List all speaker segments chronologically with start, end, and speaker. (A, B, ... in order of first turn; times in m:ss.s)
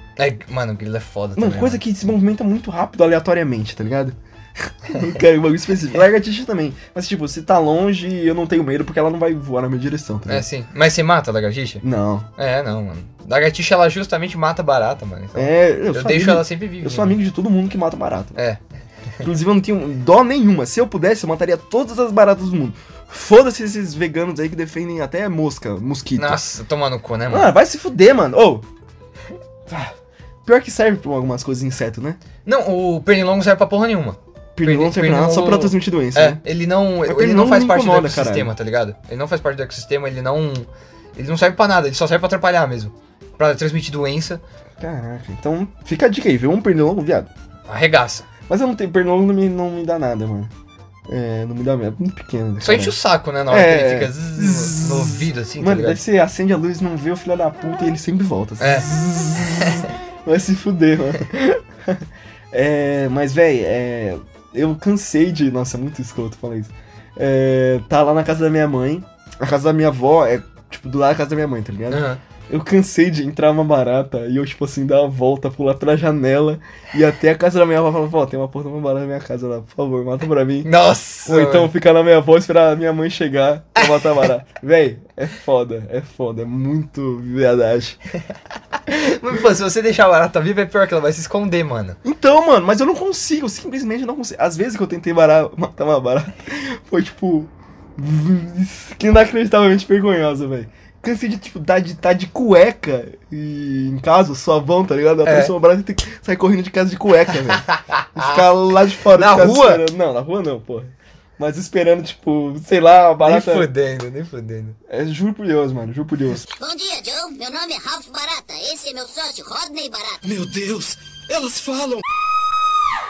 0:00.2-0:01.8 A
0:01.4-0:10.4 B
0:10.3-0:11.8 A
0:11.8-0:12.3 B
0:12.4-0:17.2 A
0:15.3-0:18.4 B
0:18.3-0:18.6 A
0:19.2-0:26.4 B
0:26.2-0:27.5 A
0:27.3-0:28.6 B
0:29.7-0:29.9 B
0:30.4-0:32.2 B
0:32.4-0:44.4 A
0:34.6-0:36.4 B
0:37.0-0:38.5 B
0:44.8-0:47.3 B
0:47.7-0:48.2 A
0:48.5-0:50.5 B
0:51.1-0:53.0 B
0:52.6-0:56.0 A
0:53.5-1:20.7 B
0:58.6-0:58.9 A
1:11.9-1:12.2 A
1:20.6-1:21.7 A
1:21.2-1:28.0 B
1:28.9-1:32.0 A
1:32.0-1:53.7 B
1:45.2-1:45.5 A
1:47.7-1:48.4 A
1:49.1-1:49.8 A
1:53.2-1:54.8 A
1:54.9-1:56.4 B
1:56.6-2:00.3 C